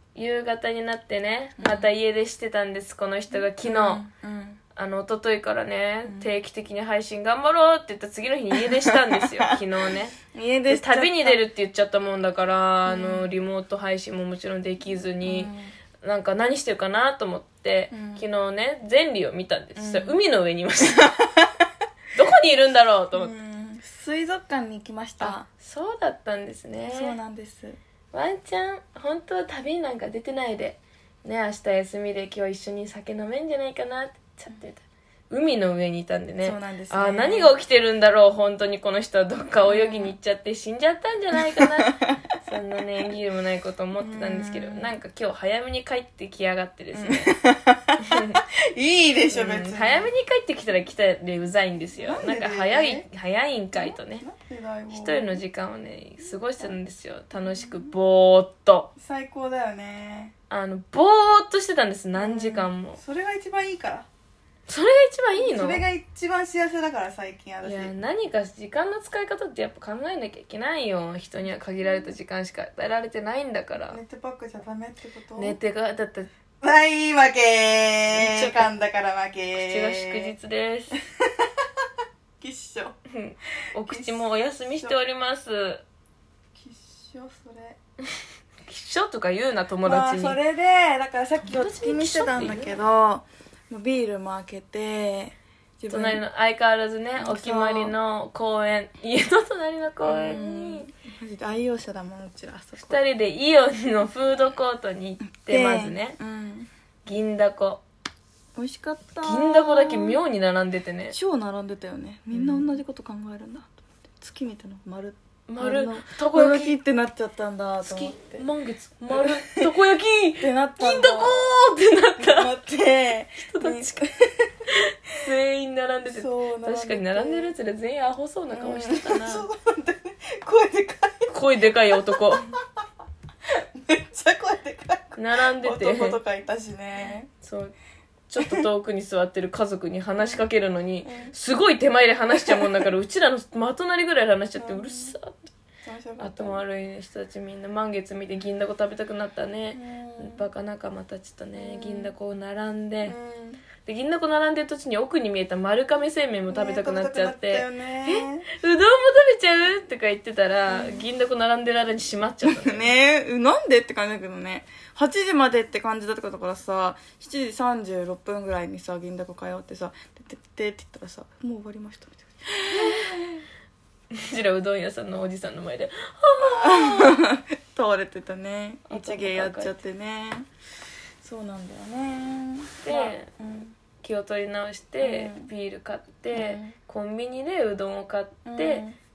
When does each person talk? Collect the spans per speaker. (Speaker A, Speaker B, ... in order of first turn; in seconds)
Speaker A: 0.1-4.0, 4.8-10.2, 10.7-21.2, 22.1-23.3, 25.2-27.2, 28.1-47.3, 48.0-48.4, 49.3-54.2, 54.9-58.9, 60.5-63.0, 64.7-65.8, 67.6-74.0, 75.4-76.3, 78.1-78.7, 79.5-80.9, 83.1-85.8, 88.7-90.4, 91.4-92.7, 95.9-100.9, 102.8-106.2, 107.0-107.8, 109.2-111.2, 112.3-112.8, 115.5-116.8, 117.8-122.5, 123.4-124.0, 124.7-129.5, 131.3-132.5, 135.2-136.2, 137.3-137.8, 138.3-145.5, 146.2-153.2, 153.8-162.9, 172.7-173.4, 174.1-177.2, 178.9-179.8, 182.8-183.3, 184.0-188.8
Speaker B: 1.6-1.9, 3.3-4.6, 6.1-6.3, 8.6-8.9, 10.3-11.4, 12.9-13.3, 15.2-15.7, 17.9-18.3, 19.8-20.2, 23.1-25.5, 26.9-27.8, 36.4-37.5, 39.6-40.1, 41.4-42.1, 44.0-45.0, 47.0-50.1, 52.0-53.1, 53.7-55.4, 57.4-57.9, 59.0-60.3, 62.1-64.1, 65.4-67.9, 71.4-72.1, 73.9-75.6, 76.6-80.3, 80.9-81.5, 82.4-83.0, 83.9-84.2, 86.5-87.8, 89.8-96.2, 97.2-98.0, 100.0-103.0, 105.2-106.7, 108.6-110.2, 111.1-118.5, 119.1-119.7, 120.4-121.5, 122.2-124.5, 126.1-127.5, 128.5-131.3, 132.2-132.6, 133.6-137.3, 138.4-138.7, 140.2-140.4, 141.0-141.3, 144.6-145.2, 145.8-146.6, 149.7-150.4, 151.6-152.1, 153.0-153.6, 156.5-158.5, 160.7-161.1, 162.4-173.1, 176.6-180.5, 181.2-183.8, 185.0-185.5, 186.3-186.8, 188.4-189.0